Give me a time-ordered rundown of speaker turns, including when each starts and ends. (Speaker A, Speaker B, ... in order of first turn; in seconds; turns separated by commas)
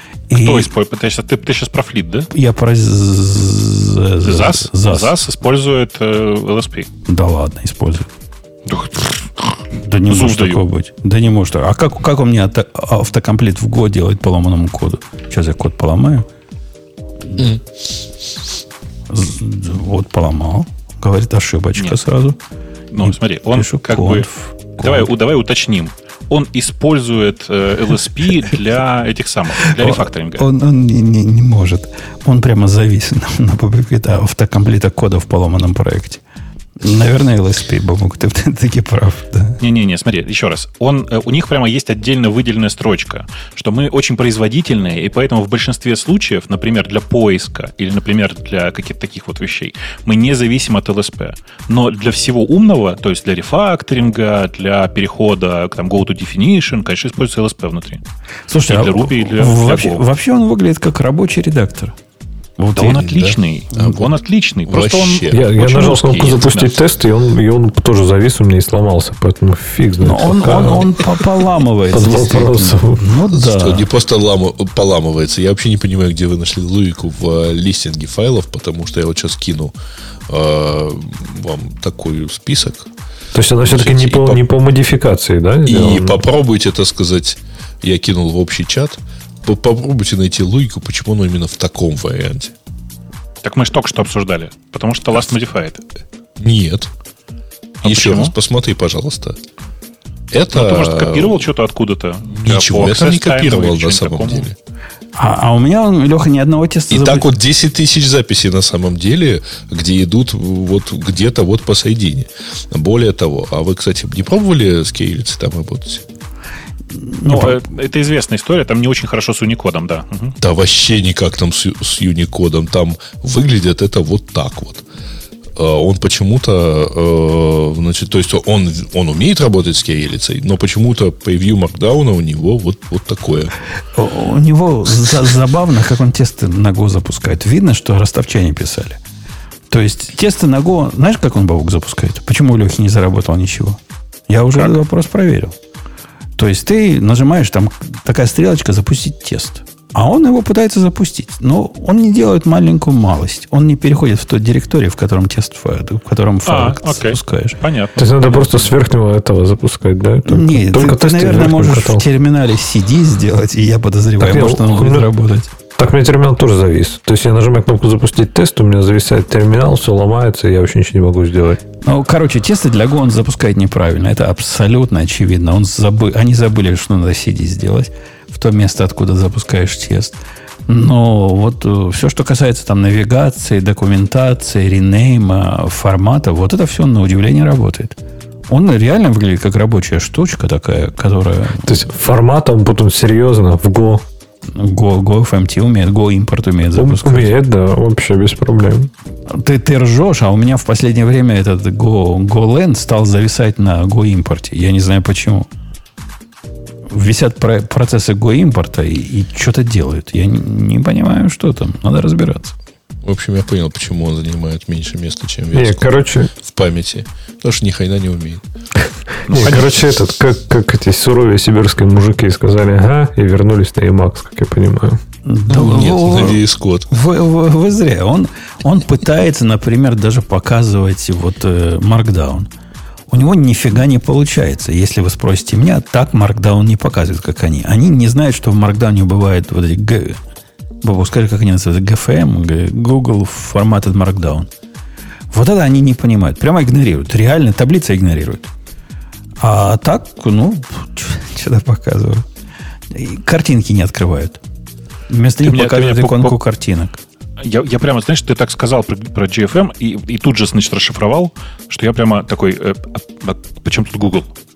Speaker A: 0.3-0.7, Speaker B: 0.4-2.3, Speaker A: 2.3-5.1, Speaker B: 4.2-6.9, Speaker A: 7.1-8.1, Speaker B: 8.7-10.7, Speaker A: 9.8-16.3, Speaker A: 19.1-22.4, Speaker B: 22.9-30.4, Speaker A: 23.0-25.1, Speaker A: 29.7-36.2, Speaker A: 36.8-39.6, Speaker B: 39.6-58.0, Speaker A: 58.5-62.0, Speaker B: 58.7-60.0, Speaker A: 62.6-63.1, Speaker B: 62.8-66.8, Speaker C: 62.9-64.2, Speaker C: 64.7-65.6, Speaker D: 65.3-71.0, Speaker A: 70.0-73.9, Speaker D: 71.9-73.0, Speaker C: 73.3-79.7, Speaker C: 80.3-82.9, Speaker D: 83.3-86.2, Speaker C: 83.6-84.4, Speaker C: 85.7-92.5, Speaker B: 93.4-95.8, Speaker C: 96.4-96.9, Speaker B: 97.8-98.3, Speaker C: 97.8-99.4, Speaker C: 100.3-101.5, Speaker B: 100.5-104.5, Speaker C: 102.3-104.5, Speaker A: 105.2-107.3, Speaker C: 106.9-116.0, Speaker A: 116.9-117.6, Speaker B: 117.3-120.4, Speaker C: 120.4-124.8, Speaker C: 125.6-133.6, Speaker A: 133.9-139.0, Speaker A: 139.7-145.5, Speaker A: 146.4-157.6, Speaker B: 156.5-158.7, Speaker D: 158.0-162.0, Speaker A: 160.3-165.5, Speaker D: 164.2-165.1, Speaker D: 165.8-171.6, Speaker A: 171.8-188.0, Speaker A: 188.5-191.8, Speaker D: 191.7-194.0, Speaker A: 194.5-197.3, Speaker D: 196.7-198.9, Speaker A: 199.3-205.5, Speaker A: 206.9-212.5, Speaker C: 213.0-218.4, Speaker D: 215.5-216.3, Speaker B: 219.3-219.8, Speaker D: 219.3-225.0, Speaker A: 225.3-232.5, Speaker C: 225.5-226.9, Speaker A: 233.1-240.2, Speaker A: 240.8-244.5, Speaker A: 245.3-248.5, Speaker A: 249.4-252.2, Speaker A: 252.9-254.4, Speaker A: 255.1-257.0, Speaker B: 255.4-256.4, Speaker B: 257.4-264.3